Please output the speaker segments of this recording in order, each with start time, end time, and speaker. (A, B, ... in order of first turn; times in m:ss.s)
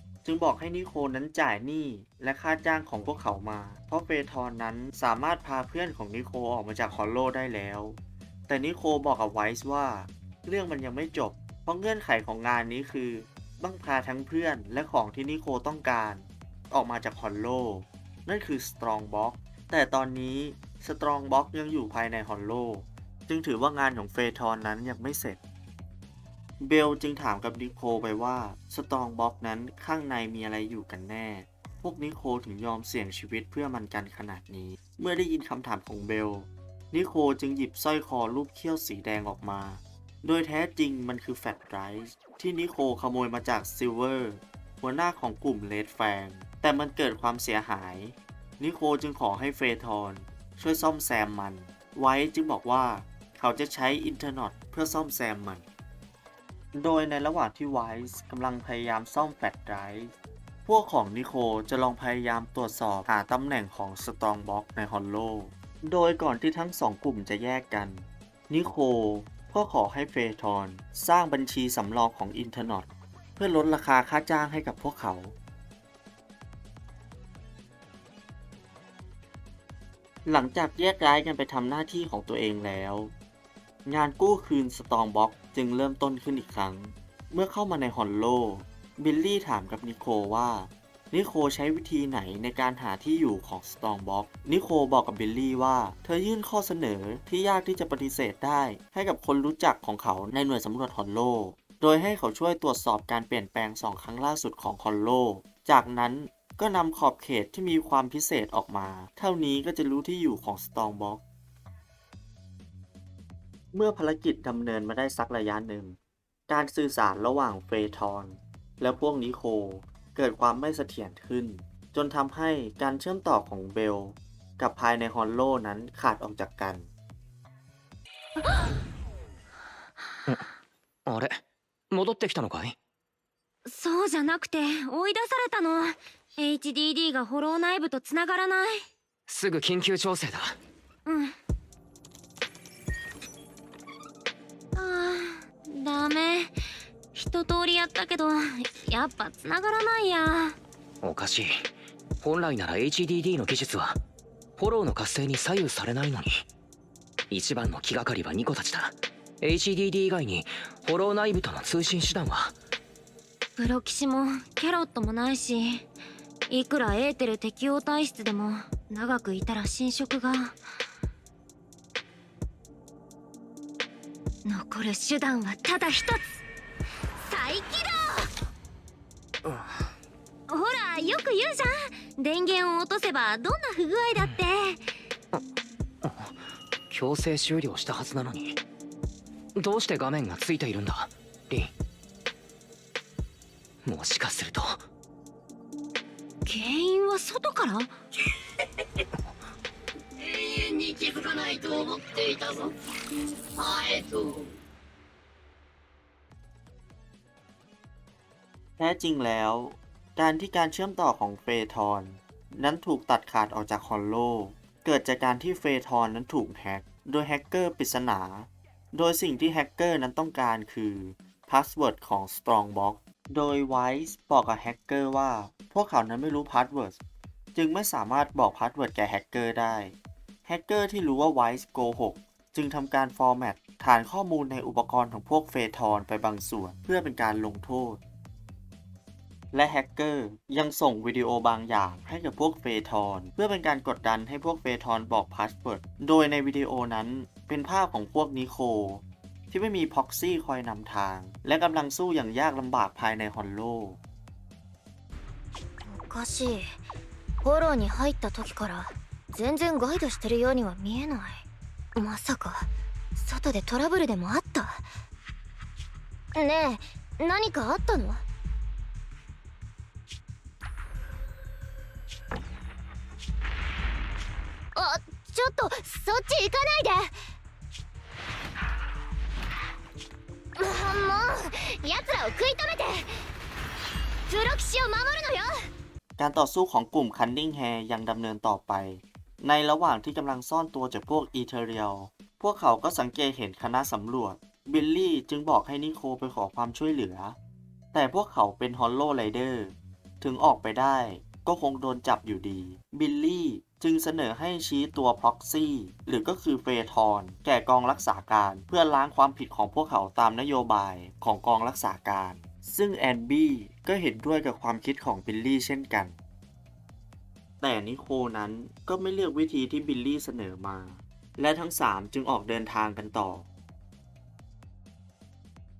0:00.2-0:25.4 A
0:26.6-0:55.6 A
0:56.7-1:00.1 A
1:00.6-1:15.3 A
1:20.2-1:23.1 A
1:23.8-1:51.2 A
1:53.7-1:56.0 A
1:56.5-2:06.9 A
2:11.0-2:12.8 B
2:13.6-2:18.8 C
2:19.3-2:20.6 B
2:21.0-2:21.3 C
2:24.7-2:26.6 C
2:27.1-2:30.6 C
2:31.0-2:31.7 B
2:32.2-2:34.0 B
2:34.6-2:36.4 B
2:37.3-2:42.5 B
2:43.6-2:45.8 C
2:46.5-2:50.6 C
2:54.4-2:56.4 C
2:57.2-2:58.3 C
3:00.5-3:04.8 C
3:06.0-3:08.6 B
3:09.6-3:11.7 B
3:13.8-3:14.8 B
3:16.4-3:17.9 C
3:20.2-3:22.7 D
3:23.6-3:24.4 D
3:28.8-3:47.0 A
3:47.5-3:58.0 A
3:59.5-4:14.0 A
4:15.8-4:16.8 C
4:17.4-4:21.4 C
4:22.0-4:24.8 C
4:26.3-4:28.2 C
4:34.7-4:37.3 C
4:40.6-4:43.2 C
4:44.3-4:45.7 C
4:46.2-4:57.4 A
4:57.9-5:16.2 A
5:17.6-5:23.5 A